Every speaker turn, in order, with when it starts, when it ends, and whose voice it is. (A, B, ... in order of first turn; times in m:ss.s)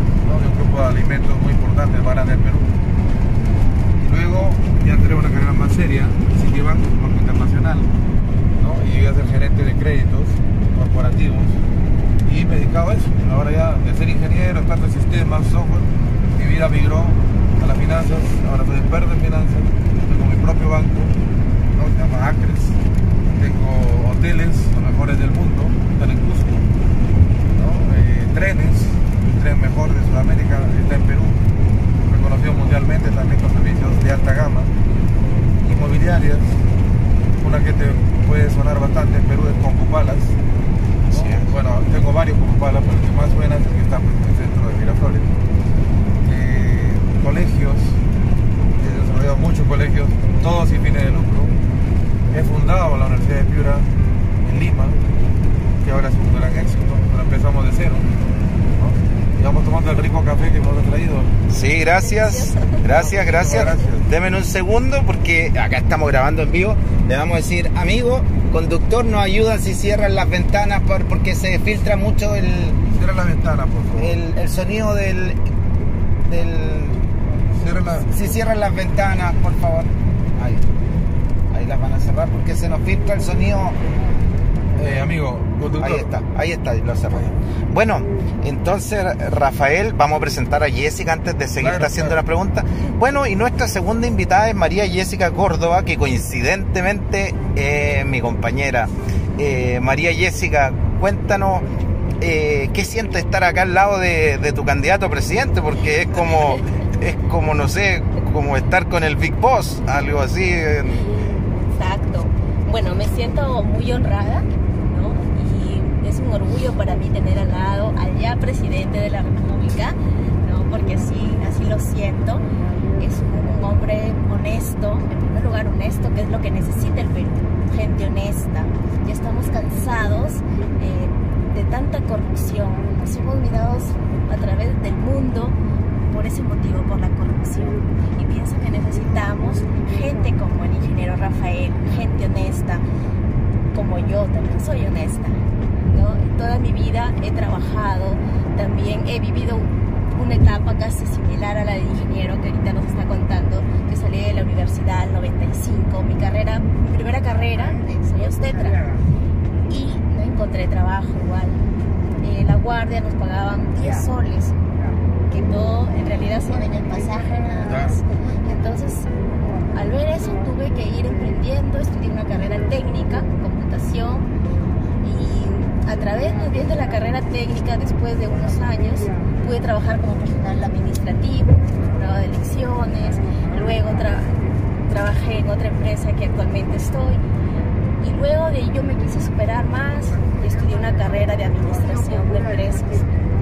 0:00.2-0:02.7 A
0:04.0-0:07.9 A
0:08.6-0:11.6 A
0:12.2-0:21.2 A
0:21.7-0:22.8 A
0:23.4-0:26.7 A
0:27.5-0:31.4 A
0:32.0-0:34.7 A
0:35.6-0:36.6 A
0:37.4-0:40.4 A
0:41.1-0:41.5 B
0:41.1-0:45.4 A
0:46.2-0:48.0 A
0:48.7-0:51.6 A
0:52.3-0:53.9 A
0:54.4-0:55.0 A
0:55.8-0:58.1 A
0:58.8-1:01.4 A
1:01.5-1:12.8 B
1:01.9-1:02.8 C
1:02.9-1:04.1 A
1:12.9-1:14.2 A
1:14.0-1:15.4 B
1:16.2-1:17.1 B
1:17.5-1:18.1 A
1:18.0-1:20.6 B
1:21.5-1:23.8 B
1:24.7-1:26.1 A
1:25.8-1:41.6 B
1:31.6-1:32.2 A
1:42.2-1:51.1 B
1:51.2-2:02.4 C
2:03.0-2:22.8 C
2:23.7-2:38.9 C
2:39.7-2:41.6 C
2:42.2-2:44.5 C
2:45.3-2:49.1 C
2:47.7-2:48.0 A
2:49.7-2:54.3 C
2:55.0-3:07.2 C
3:08.0-3:13.1 C